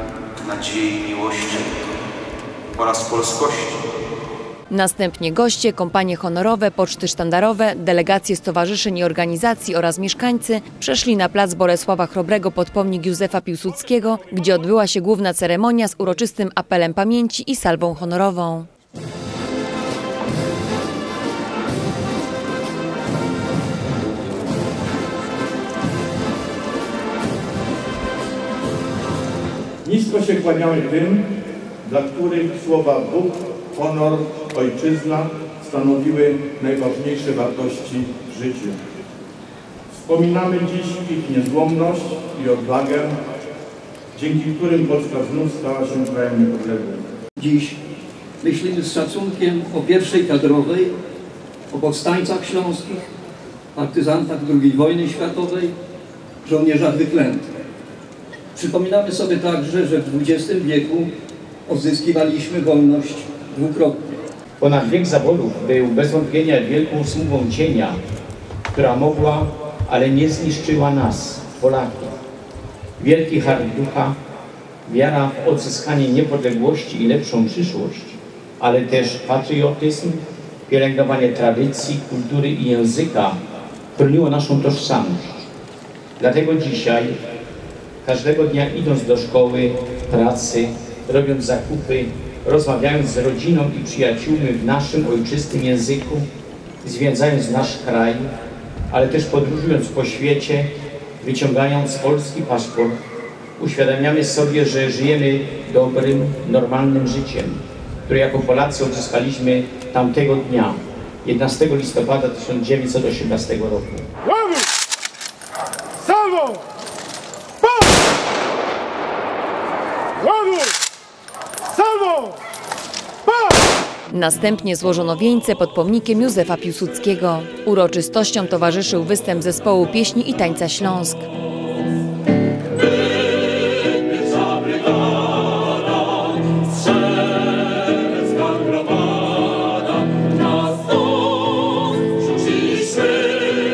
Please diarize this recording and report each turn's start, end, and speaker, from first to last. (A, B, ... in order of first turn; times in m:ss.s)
0:00.4-0:02.0 A
0:02.7-0:03.8 A
0:04.7-0:18.7 B
0:29.8-0:31.3 C
0:31.8-0:38.8 C
0:39.9-0:43.2 C
0:44.1-0:47.0 C
0:47.4-0:47.8 D
0:48.4-0:50.9 D
0:51.7-0:53.0 D
0:53.7-0:55.7 D
0:56.4-0:57.5 D
0:58.5-1:01.1 D
1:01.7-1:04.0 D
1:04.6-1:08.0 E
1:08.7-1:12.1 E
1:13.0-1:14.2 E
1:14.8-1:23.4 E
1:23.9-1:25.5 E
1:26.2-1:27.2 E
1:28.0-1:36.2 E
1:36.8-1:38.3 E
1:38.9-1:40.7 E
1:41.2-1:43.0 E
1:43.6-1:54.1 E
2:04.1-2:11.3 B